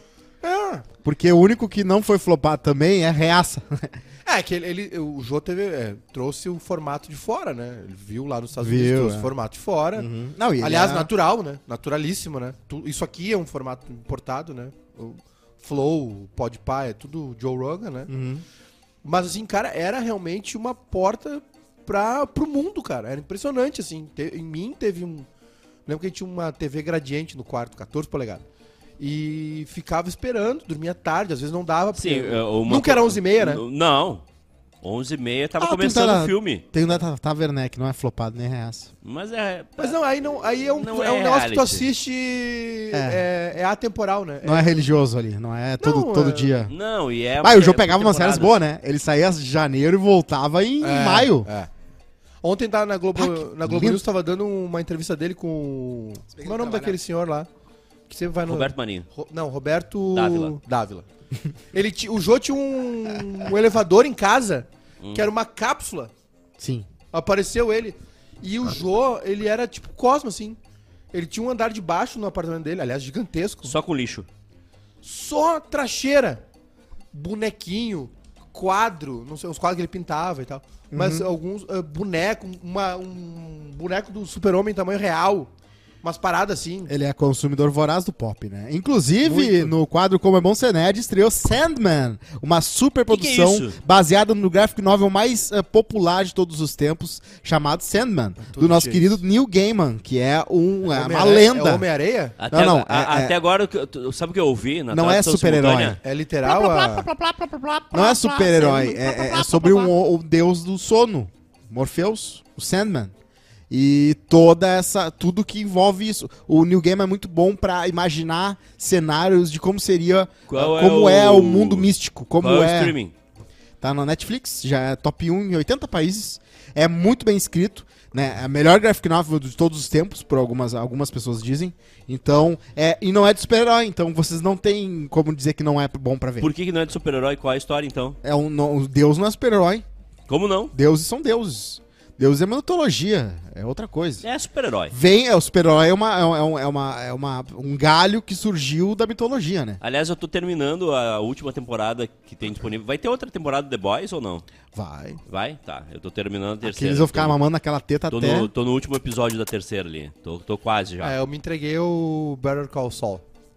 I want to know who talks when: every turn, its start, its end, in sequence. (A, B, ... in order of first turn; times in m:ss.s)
0:00.4-0:00.8 A
0:01.0-0:04.0 B
0:04.2-0:10.1 A
0:08.6-0:09.3 B
0:09.9-0:11.1 B
0:10.6-0:18.1 A
0:18.1-0:18.4 B
0:19.0-0:25.3 A
0:25.9-0:28.4 A
0:29.0-0:33.6 A
0:31.9-0:34.2 C
0:34.8-0:36.6 C
0:35.6-0:38.9 B
0:39.0-0:40.0 C
0:39.8-0:44.8 A
0:40.8-0:41.9 C
0:42.9-0:43.2 B
0:44.4-0:46.7 B
0:45.8-0:46.6 A
0:46.7-0:48.6 C
0:47.4-0:51.5 B
0:50.8-0:51.7 A
0:52.4-0:57.5 A
0:53.2-0:54.0 B
0:56.3-0:57.0 B
0:58.1-1:01.0 A
0:58.5-0:59.0 C
1:00.1-1:00.6 C
1:01.7-1:06.1 A
1:05.0-1:05.3 C
1:06.6-1:06.9 B
1:07.1-1:10.6 A
1:11.1-1:13.8 A
1:13.6-1:14.3 C
1:15.0-1:16.4 A
1:17.1-1:25.5 A
1:20.9-1:21.3 B
1:26.0-1:26.9 A
1:26.9-1:41.8 B
1:29.2-1:29.7 A
1:33.1-1:33.8 C
1:38.4-1:39.2 A
1:40.9-1:42.4 A
1:42.4-1:46.0 C
1:42.5-1:43.3 B
1:44.9-1:53.1 B
1:46.0-1:47.1 A
1:48.5-1:48.9 A
1:53.7-2:02.9 B
2:00.5-2:03.1 C
2:03.8-2:16.5 B
2:16.4-2:18.2 C
2:18.2-2:19.8 B
2:20.3-2:20.7 C
2:20.7-2:24.2 B
2:24.2-2:25.0 C
2:24.9-2:29.8 B
2:29.8-2:34.4 C
2:34.7-2:35.2 B
2:35.3-2:37.4 C
2:36.6-2:38.5 B
2:38.1-2:41.1 C
2:41.0-2:43.2 A